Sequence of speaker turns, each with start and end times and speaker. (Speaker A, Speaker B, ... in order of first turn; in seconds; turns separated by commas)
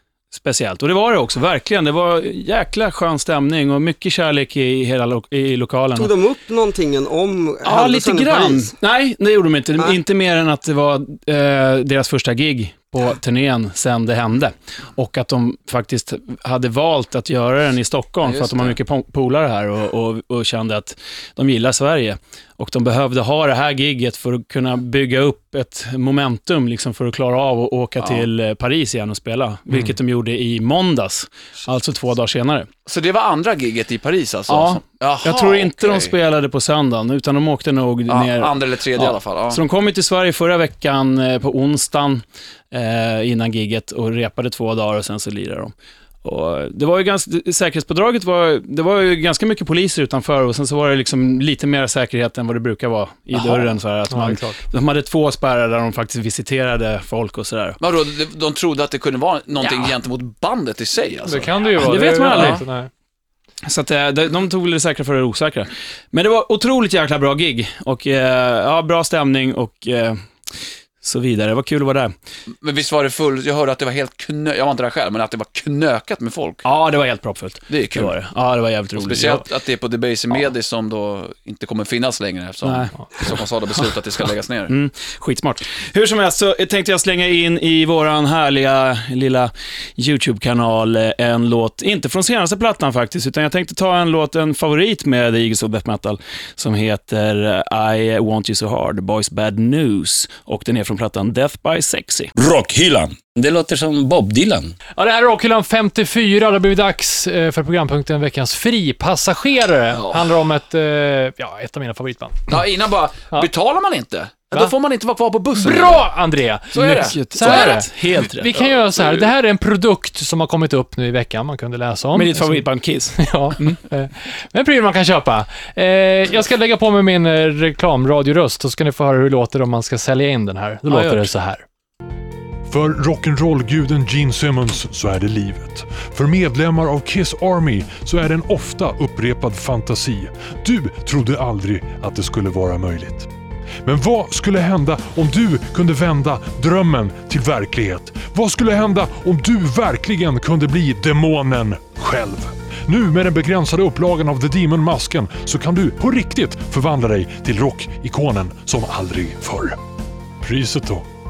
Speaker A: 0.3-6.1, Speaker B: 6.0-8.7, Speaker A: 7.6-32.7, Speaker C: 18.2-18.8, Speaker C: 28.0-28.3, Speaker C: 32.9-36.2, Speaker A: 34.5-57.8, Speaker C: 38.1-39.6, Speaker D: 53.4-54.6, Speaker C: 57.8-61.8, Speaker D: 61.2-62.9, Speaker A: 61.8-62.6, Speaker C: 62.3-62.6, Speaker A: 63.7-70.2, Speaker A: 71.0-72.1, Speaker C: 72.6-76.7, Speaker A: 76.6-79.4, Speaker C: 77.7-78.1, Speaker C: 78.9-84.8, Speaker A: 82.6-83.8, Speaker A: 84.7-102.3, Speaker E: 102.3-104.7, Speaker D: 105.0-112.6, Speaker C: 109.9-110.3, Speaker C: 112.5-116.1, Speaker D: 115.6-131.6, Speaker C: 116.7-117.9, Speaker A: 116.8-118.5, Speaker C: 118.5-119.2, Speaker A: 122.1-123.8, Speaker A: 130.9-131.3, Speaker F: 132.7-143.3, Speaker F: 143.8-159.8, Speaker F: 160.4-161.1